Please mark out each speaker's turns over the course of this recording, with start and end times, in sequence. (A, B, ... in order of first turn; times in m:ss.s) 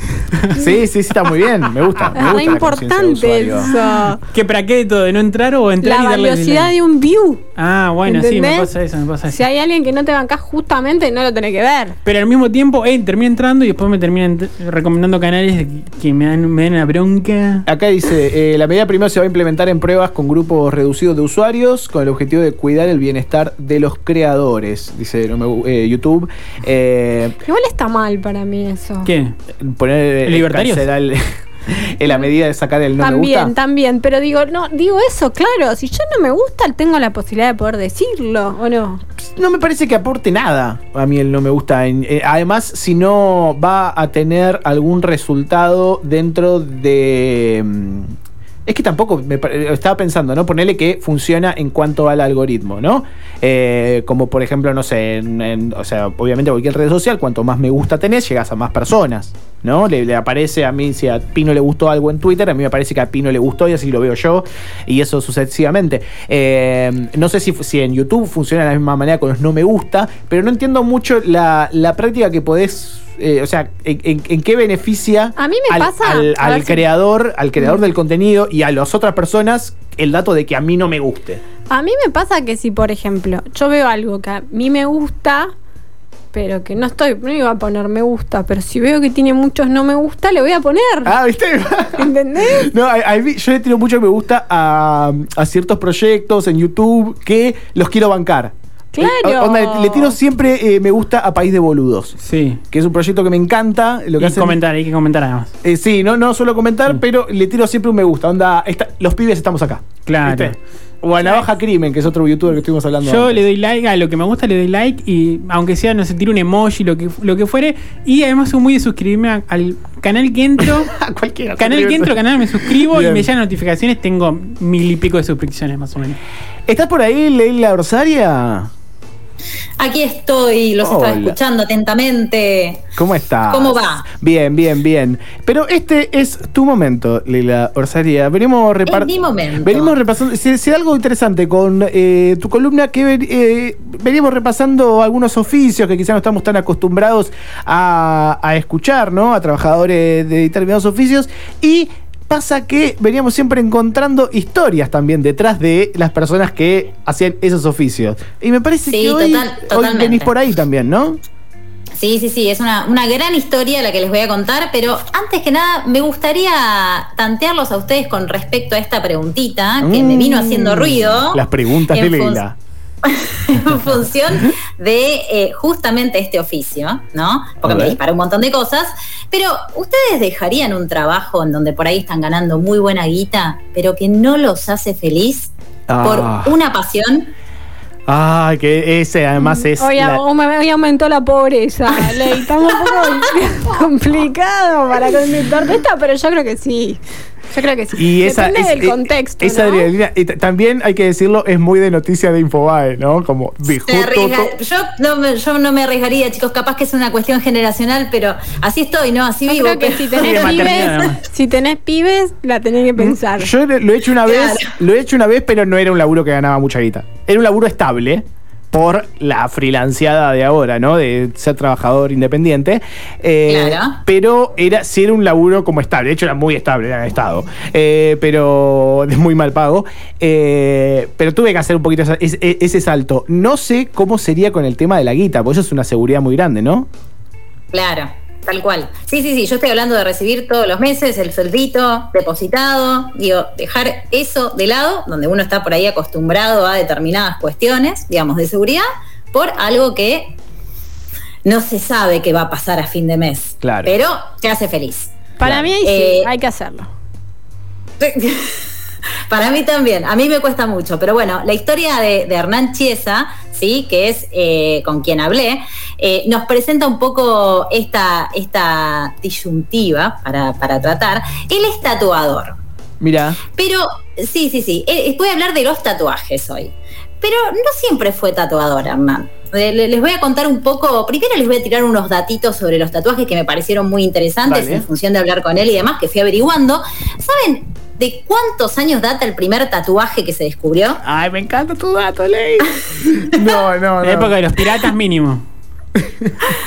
0:00.6-0:03.7 A
0:02.0-0:02.4 B
0:02.1-0:04.2 C
0:03.6-0:06.7 B
0:05.8-0:07.4 C
0:07.6-0:09.4 B
0:08.0-0:08.7 C
0:09.2-0:12.0 C
0:12.0-0:17.7 B
0:17.7-0:27.4 A
0:27.4-0:29.1 C
0:29.0-0:29.3 B
0:29.6-0:33.5 A
0:30.2-0:30.9 B
0:33.0-0:39.0 C
0:39.2-1:21.4 A
1:15.4-1:16.8 C
1:21.7-1:25.5 C
1:26.3-1:31.1 C
1:31.0-1:42.2 A
1:32.0-1:32.7 C
1:38.9-1:40.2 C
1:42.2-1:42.6 B
1:42.7-1:44.6 A
1:44.2-1:45.5 B
1:45.6-1:53.4 A
1:50.0-1:50.6 B
1:53.0-2:00.9 B
2:00.6-2:03.3 A
2:01.6-2:06.2 B
2:06.7-2:08.7 A
2:09.8-2:12.8 D
2:10.8-2:11.4 A
2:13.0-2:41.2 A
2:13.5-2:14.1 D
2:18.9-2:19.9 D
2:38.9-2:40.3 D
2:42.0-2:52.4 D
2:49.8-2:52.6 A
2:53.0-3:07.3 D
2:57.6-2:58.0 A
3:05.9-3:06.6 A
3:08.1-3:10.2 A
3:09.4-3:19.9 C
3:17.9-3:24.6 A
3:23.7-3:31.1 D
3:29.5-3:33.5 C
3:30.2-3:31.2 B
3:33.0-3:56.9 A
3:34.2-3:34.7 D
3:43.5-3:44.0 D
3:57.7-4:10.4 D
4:11.4-4:16.3 D
4:13.6-4:13.9 A
4:15.4-4:16.9 C
4:15.4-4:15.7 A
4:18.0-4:18.6 D
4:19.3-4:32.6 D
4:33.0-4:33.4 A
4:33.6-4:51.0 D
4:44.5-4:44.9 A
4:51.0-4:54.4 A
4:54.0-4:55.4 B
4:56.0-4:56.5 A